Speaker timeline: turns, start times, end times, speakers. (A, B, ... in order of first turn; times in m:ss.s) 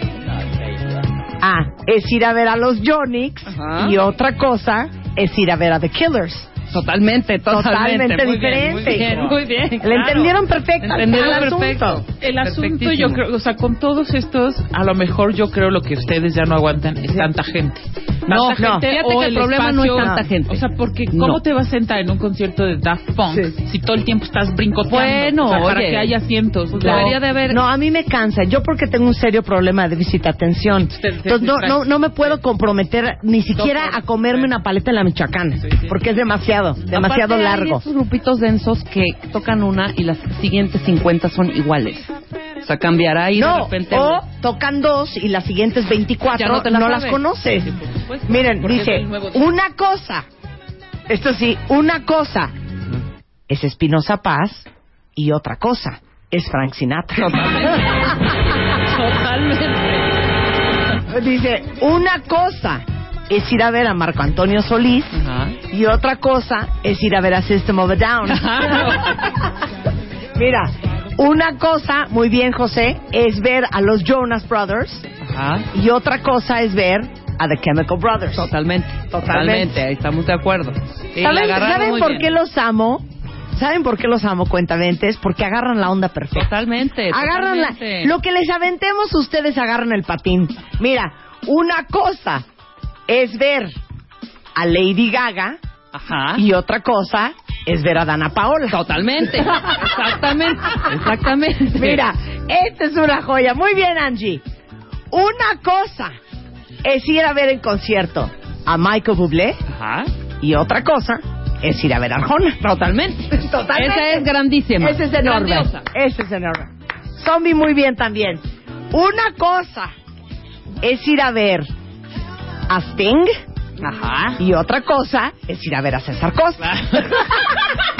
0:01.4-0:06.5 A
0:03.5-0:04.0 B
0:06.7-0:13.2 B
0:07.5-0:12.0 A
0:08.8-0:09.2 C
0:10.9-0:11.6 C
0:12.2-0:27.2 C
0:18.3-0:21.4 B
0:18.3-0:18.9 A
0:20.0-0:20.2 A
0:24.9-0:26.1 B
0:26.7-0:27.6 B
0:26.8-0:37.8 A
0:30.9-0:32.3 C
0:33.5-0:34.5 C
0:35.6-0:35.9 C
0:36.9-0:44.2 B
0:43.4-0:50.2 A
0:46.3-0:48.4 B
0:48.5-0:49.5 C
0:51.1-0:52.5 A
0:53.5-0:57.9 A
0:57.3-0:58.1 B
0:57.3-0:58.1 C
0:58.7-1:00.1 C
1:01.0-1:09.0 A
1:05.1-1:05.6 B
1:08.3-1:09.3 B
1:10.4-1:15.1 A
1:15.2-1:15.7 B
1:15.7-1:18.5 A
1:18.3-1:22.3 B
1:19.1-1:19.8 A
1:21.2-1:26.5 A
1:26.4-1:28.1 B
1:27.1-1:32.4 A
1:33.1-1:33.7 A
1:34.5-1:35.6 A
1:35.9-1:36.4 B
1:36.4-1:38.8 A
1:38.7-1:42.0 B
1:39.3-1:39.9 A
1:40.6-1:40.9 A
1:41.7-1:44.4 A
1:45.1-1:46.2 A
1:46.8-1:49.6 A
1:49.7-1:50.1 B
1:50.4-1:52.6 A
1:52.6-1:55.8 B
1:53.3-1:59.9 A
2:00.8-2:01.7 A
2:02.7-2:03.3 A
2:03.8-2:04.4 B
2:04.4-2:07.3 A
2:06.6-2:07.2 B